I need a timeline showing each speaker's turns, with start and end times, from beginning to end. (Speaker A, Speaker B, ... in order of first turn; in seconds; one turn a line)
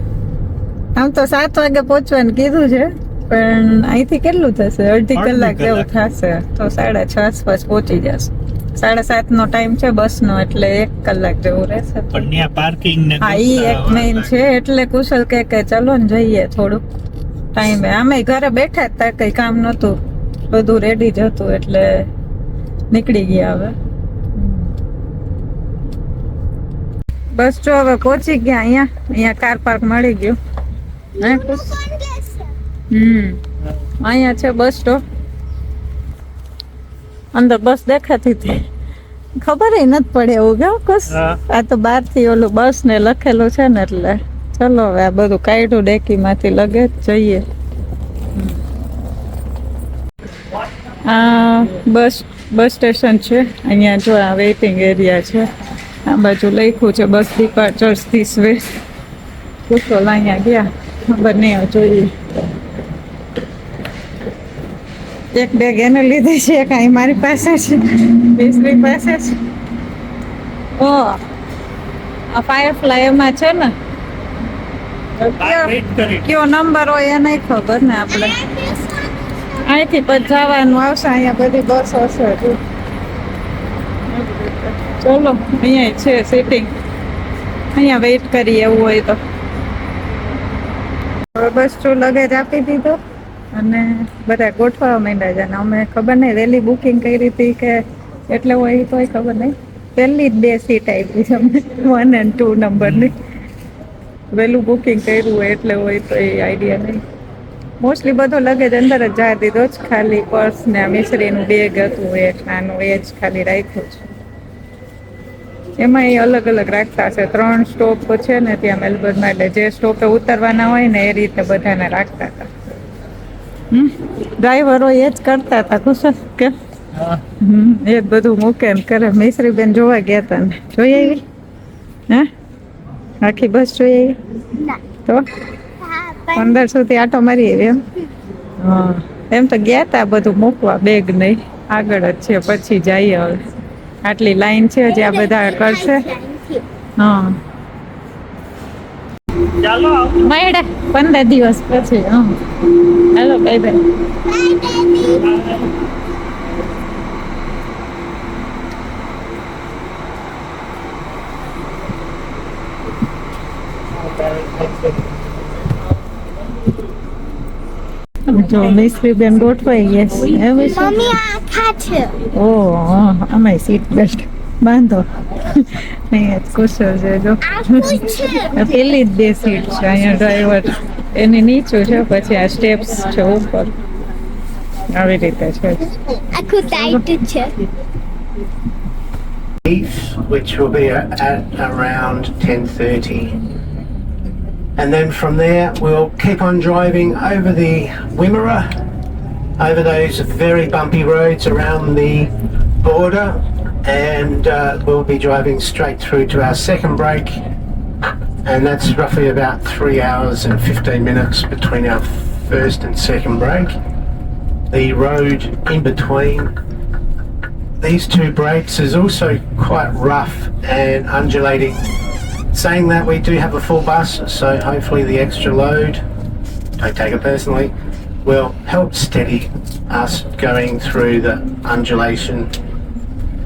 Speaker A: 0.9-12.2
Speaker B: 5.1-5.9
Speaker B: 12.1-14.3
Speaker A: 13.2-16.8
Speaker A: 17.5-20.0
Speaker A: 20.5-22.1
Speaker A: 22.9-23.7
Speaker A: 24.4-24.7
Speaker A: 27.4-30.4
Speaker C: 31.2-32.5
Speaker A: 31.2-31.7
Speaker A: 32.9-33.4
Speaker A: 34.0-35.0
Speaker A: 37.3-38.6
Speaker A: 39.4-47.4
Speaker B: 41.1-41.4
Speaker A: 51.0-55.5
Speaker A: 56.0-58.6
Speaker A: 59.7-62.1
Speaker A: 65.3-69.3
Speaker A: 70.8-71.2
Speaker A: 72.3-73.7
Speaker A: 75.2-78.4
Speaker B: 75.4-76.2
Speaker C: 78.2-79.2
Speaker A: 79.6-82.6
Speaker A: 84.1-86.7
Speaker A: 87.7-89.2
Speaker A: 91.3-93.0
Speaker A: 93.5-103.2
Speaker B: 102.8-103.1
Speaker A: 104.3-107.0
Speaker A: 107.8-114.0
Speaker A: 115.8-122.5
Speaker A: 123.7-126.5
Speaker A: 127.4-131.2
Speaker A: 133.2-134.2
Speaker C: 134.6-134.8
Speaker C: 135.8-136.6
Speaker A: 136.3-137.8
Speaker A: 138.6-143.4
Speaker A: 144.0-146.1
Speaker C: 144.9-146.6
Speaker A: 147.0-147.3
Speaker B: 149.6-150.3
Speaker A: 150.2-153.8
Speaker C: 154.2-155.3
Speaker B: 155.3-155.6
Speaker A: 168.3-171.2
Speaker C: 170.5-172.2
Speaker A: 172.3-183.7
Speaker C: 177.4-178.5
Speaker A: 184.9-186.0
Speaker C: 186.3-187.6
Speaker D: 189.6-193.4
Speaker D: 194.8-198.7
Speaker D: 199.6-207.3
Speaker D: 208.4-213.7
Speaker D: 214.7-216.5
Speaker D: 217.8-221.8
Speaker D: 222.5-226.0
Speaker D: 226.8-227.7
Speaker D: 228.2-232.5